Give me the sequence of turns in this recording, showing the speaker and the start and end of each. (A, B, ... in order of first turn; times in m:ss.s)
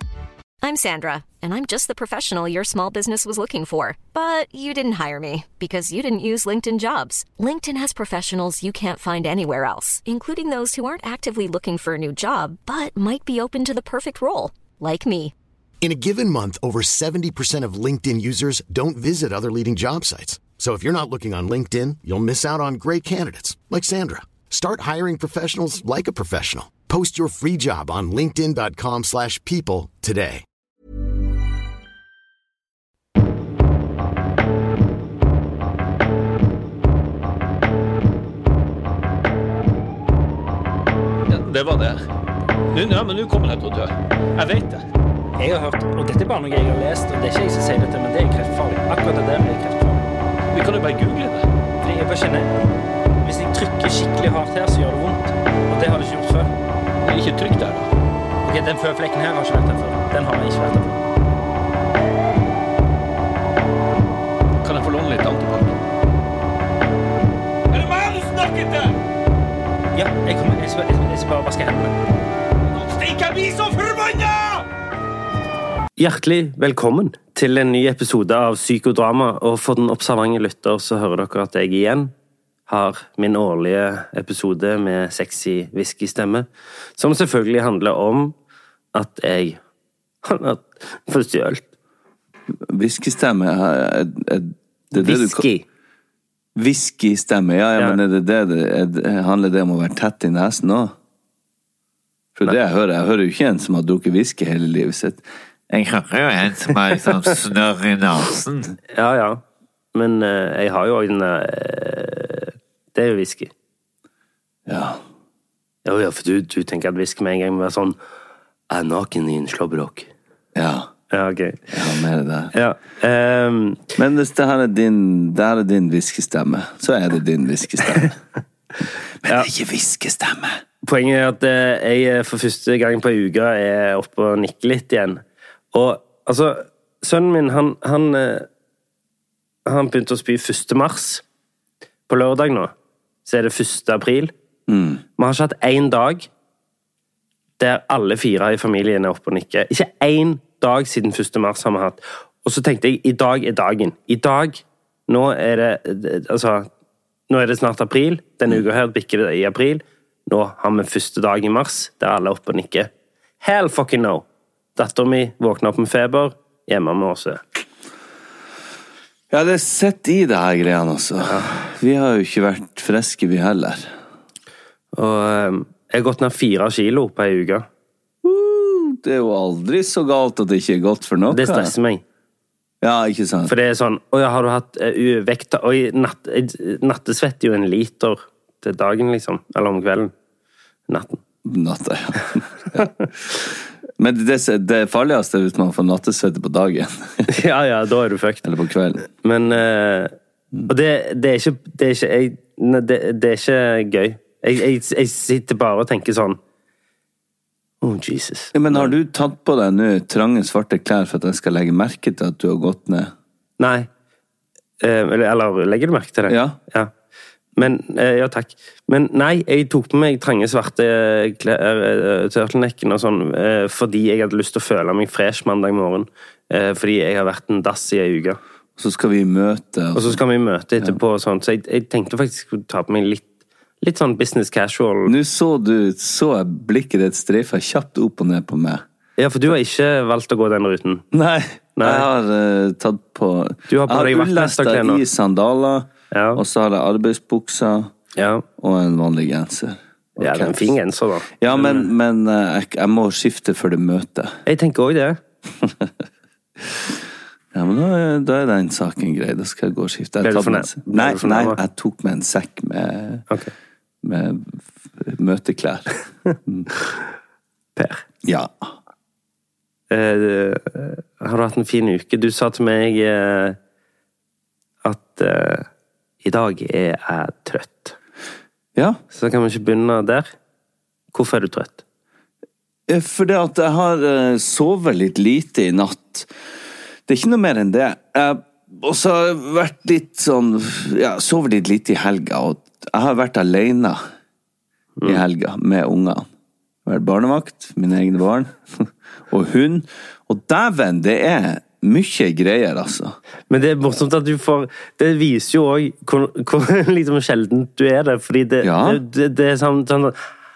0:00.6-0:15.3 A
0:15.8-0:30.4 B
0:43.2-0:43.8 C
0:45.4-0:50.0 D
0:50.5-0:50.9 C
0:51.8-0:52.5 D
0:53.2-0:56.5 D
0:58.5-1:01.0 D
1:04.7-1:05.7 C
1:07.8-1:08.8 C
1:10.3-1:11.9 D
1:12.8-1:14.5 C
1:16.0-1:22.1 E
1:22.7-1:28.4 E
1:28.9-1:29.6 E
1:30.2-1:31.7 E
1:32.7-1:35.4 F
1:34.9-1:35.6 E
1:36.6-1:40.9 F
1:42.4-1:45.2 F
1:45.7-1:48.8 G
1:49.0-1:49.4 E
1:49.9-1:53.5 E
1:54.7-1:55.0 F
1:55.8-1:58.0 E
1:58.7-2:00.1 E
2:00.6-2:00.9 F
2:01.1-2:01.6 E
2:01.7-2:02.5 F
2:02.5-2:03.9 E
2:04.0-2:08.2 F
2:09.2-2:10.6 F
2:10.8-2:15.2 E
2:15.7-2:18.5 E
2:19.7-2:21.2 E
2:22.1-2:22.7 E
2:23.2-2:24.3 E
2:24.7-2:25.0 F
2:25.2-2:26.3 E
2:27.6-2:36.7 E
2:37.3-2:42.9 E
2:43.4-2:44.2 E
2:44.8-2:47.4 E
2:49.3-2:53.9 F
2:51.2-2:51.5 E
2:55.0-2:57.7 E
2:58.2-3:01.7 F
3:01.3-3:02.0 E
3:02.8-3:03.5 F
3:03.5-3:10.1 E
3:10.9-3:11.2 E
3:11.4-3:17.3 F
3:12.8-3:13.1 E
3:17.3-3:18.5 E
3:18.4-3:19.0 F
3:19.2-3:20.1 E
3:20.7-3:26.4 E
3:27.8-3:28.9 E
3:28.6-3:33.1 F
3:33.6-3:33.9 E
3:34.8-3:36.9 E
3:36.3-3:36.6 F
3:37.6-3:48.4 E
3:48.8-3:50.2 F
3:50.0-3:53.3 E
3:53.8-3:55.1 E
3:55.1-3:58.8 F
3:59.2-4:01.0 E
4:01.1-4:07.9 F
4:01.8-4:02.1 E
4:03.7-4:05.0 E
4:06.1-4:06.4 E
4:08.2-4:08.4 E
4:08.6-4:10.8 F
4:10.2-4:11.9 E
4:11.4-4:14.4 F
4:14.5-4:15.2 E
4:17.5-4:23.2 F
4:20.2-4:21.6 E
4:24.0-4:26.7 F
4:27.8-4:28.0 E
4:28.2-4:28.7 F
4:29.9-4:33.6 E
4:34.8-4:35.7 E
4:36.2-4:38.0 E
4:39.1-4:40.3 E
4:41.1-4:41.8 E
4:42.9-4:46.3 F
4:47.1-4:54.0 F
4:55.0-4:56.3 F
4:56.8-5:03.2 F
5:03.5-5:10.2 E
5:08.6-5:09.0 F